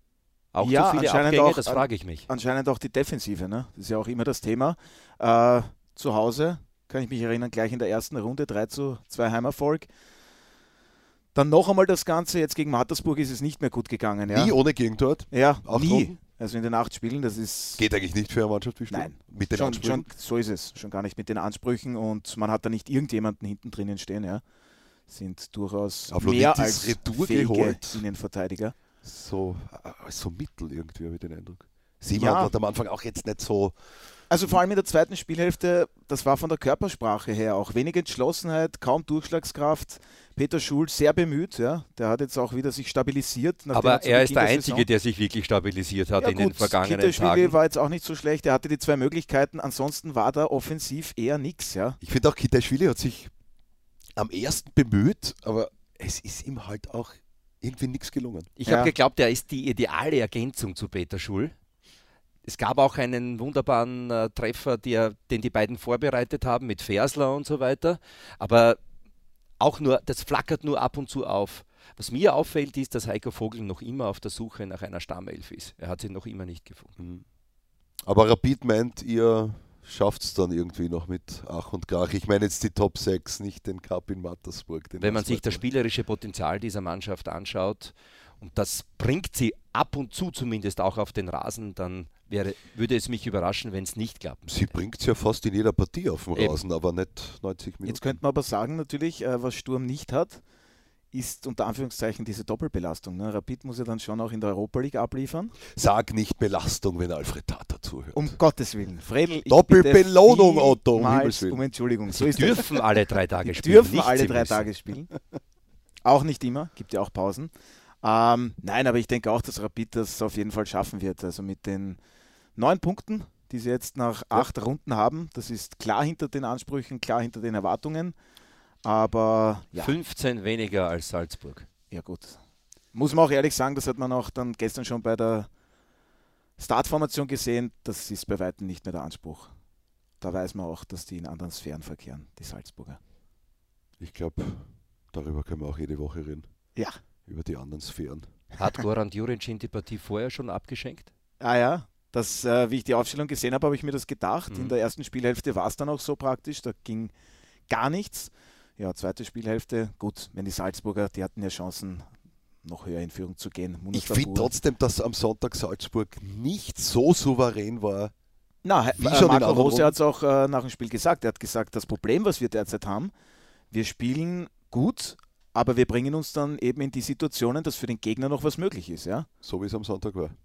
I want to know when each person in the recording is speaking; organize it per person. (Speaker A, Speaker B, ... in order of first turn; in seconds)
Speaker A: 0.5-2.3, 43.7-47.6, 58.6-61.5, 62.5-68.8, 69.6-76.9, 85.0-94.7, 96.3-96.6, 112.1-114.7, 129.8-131.7, 148.6-151.1
Speaker B: 0.6-9.9, 11.3-14.6, 15.3-17.9, 18.9-24.4, 25.1-28.8, 32.1-32.5, 34.3-44.9, 46.2-52.0, 58.7-58.9, 97.9-100.4, 101.1-105.5, 108.1-112.9, 113.4-115.1, 116.0-117.5, 118.0-122.0, 122.6-128.2, 128.8-130.0, 131.9-132.4, 132.9-135.5, 136.6-139.5, 140.2-143.0, 151.4-157.1, 157.7-162.1, 162.6-164.5, 168.6-173.1, 173.7-179.3
Speaker C: 14.3-16.1, 17.8-20.1, 26.1-28.0, 29.0-33.8, 52.0-53.3, 54.2-58.5, 77.0-77.2, 78.0-85.6, 94.5-98.2, 105.7-108.3, 109.5-111.6, 144.0-146.5, 147.3-148.3, 163.9-168.1, 168.9-169.9, 179.4-180.4